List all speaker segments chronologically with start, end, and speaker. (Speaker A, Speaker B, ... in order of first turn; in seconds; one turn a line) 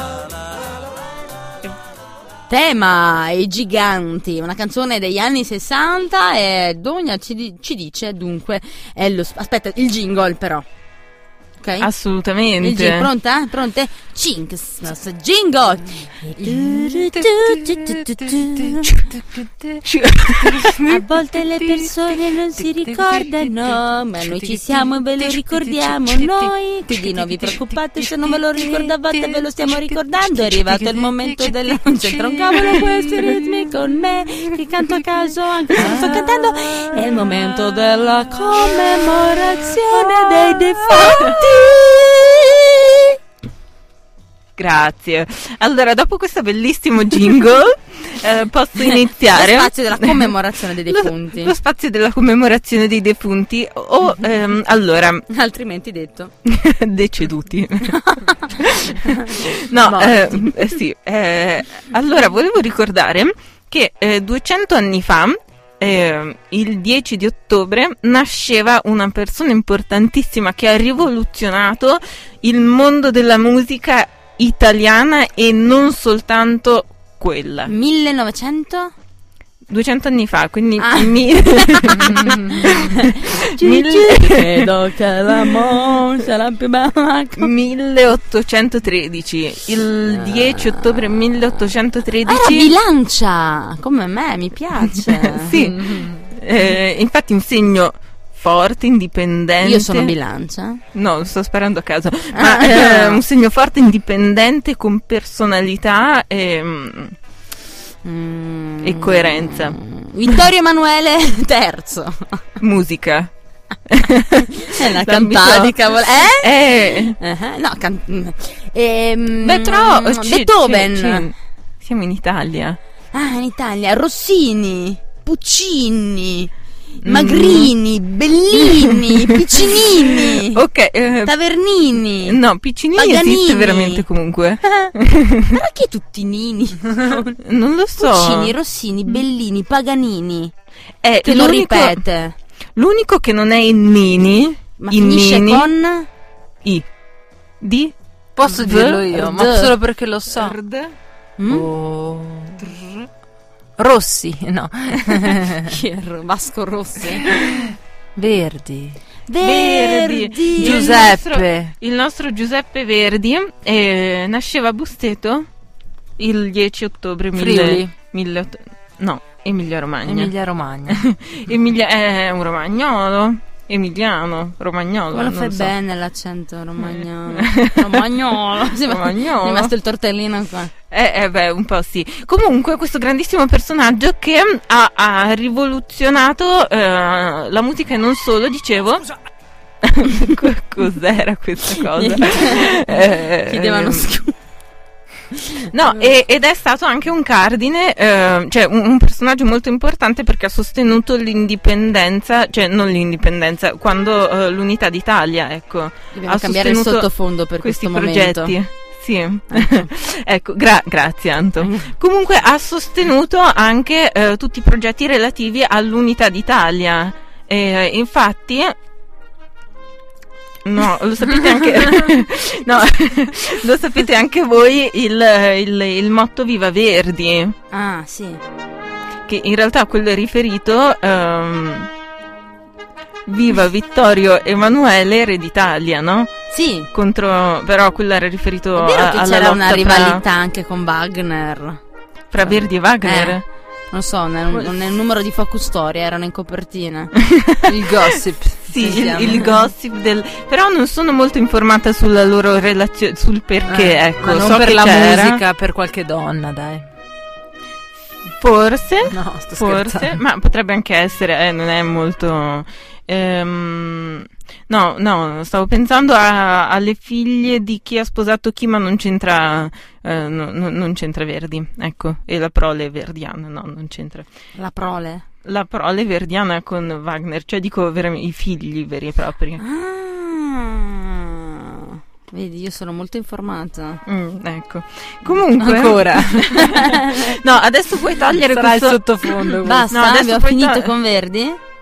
Speaker A: 2.5-10.6
Speaker A: 11.6-11.9
Speaker B: 11.8-13.1
Speaker A: 12.6-19.1
Speaker C: 16.4-19.8
Speaker B: 19.8-20.8
Speaker C: 20.4-33.6
Speaker A: 20.8-43.2
Speaker C: 35.8-36.5
Speaker B: 44.6-50.3
Speaker A: 48.8-51.5
Speaker B: 50.9-55.2
Speaker A: 55.3-56.3
Speaker B: 56.5-77.7
Speaker A: 57.9-58.5
Speaker A: 59.0-59.4
Speaker A: 59.9-60.5
Speaker A: 77.7-78.9
Speaker B: 79.7-84.7
Speaker A: 80.8-87.5
Speaker B: 87.4-92.7
Speaker A: 90.1-91.5
Speaker A: 92.2-95.6
Speaker B: 95.0-100.1
Speaker C: 95.5-96.2
Speaker A: 99.6-100.8
Speaker B: 100.9-107.1
Speaker A: 102.3-103.2
Speaker A: 108.0-112.4
Speaker B: 108.8-109.8
Speaker B: 112.6-113.3
Speaker B: 113.9-115.8
Speaker A: 114.6-121.3
Speaker B: 116.4-117.2
Speaker B: 119.4-122.8
Speaker A: 123.1-126.5
Speaker A: 127.0-130.6
Speaker B: 127.0-127.7
Speaker B: 128.6-131.3
Speaker A: 131.2-132.4
Speaker B: 132.2-135.5
Speaker A: 132.9-134.0
Speaker A: 135.4-137.4
Speaker B: 137.4-138.5
Speaker A: 138.0-140.5
Speaker B: 141.0-142.0
Speaker A: 141.2-142.3
Speaker B: 142.8-145.7
Speaker A: 144.8-146.1
Speaker B: 147.6-147.9
Speaker C: 148.3-150.6
Speaker B: 148.5-149.0
Speaker A: 149.1-149.7
Speaker B: 150.3-150.9
Speaker A: 151.4-151.7
Speaker C: 151.5-152.7
Speaker C: 153.8-155.7
Speaker A: 155.6-157.3
Speaker C: 158.2-159.0
Speaker A: 159.3-160.9
Speaker B: 159.4-165.5
Speaker C: 160.6-161.7
Speaker B: 166.2-170.3
Speaker C: 167.3-167.9
Speaker C: 170.0-171.1
Speaker B: 170.9-175.7
Speaker A: 175.1-180.7
Speaker B: 176.9-179.7
Speaker B: 180.9-189.1
Speaker B: 189.8-194.1
Speaker A: 191.9-194.3
Speaker A: 195.3-195.6
Speaker B: 195.7-207.1
Speaker A: 206.1-208.5
Speaker B: 207.6-218.7
Speaker A: 209.5-209.9
Speaker A: 211.6-211.9
Speaker B: 220.6-227.6
Speaker A: 227.7-228.4
Speaker B: 229.3-231.9
Speaker B: 233.3-236.4
Speaker A: 236.5-236.9
Speaker B: 236.9-240.2
Speaker A: 238.8-241.8
Speaker B: 242.3-243.4
Speaker A: 242.4-243.4
Speaker A: 243.9-247.1
Speaker B: 247.2-247.7
Speaker C: 247.6-249.6
Speaker B: 248.7-255.4
Speaker C: 253.7-256.9
Speaker B: 258.4-274.3
Speaker C: 259.1-260.2
Speaker A: 274.6-275.2
Speaker B: 275.4-279.6
Speaker A: 279.6-284.0
Speaker B: 284.1-289.1
Speaker C: 285.6-286.6
Speaker A: 286.5-287.4
Speaker C: 288.3-289.9
Speaker A: 289.6-291.6
Speaker B: 289.9-290.9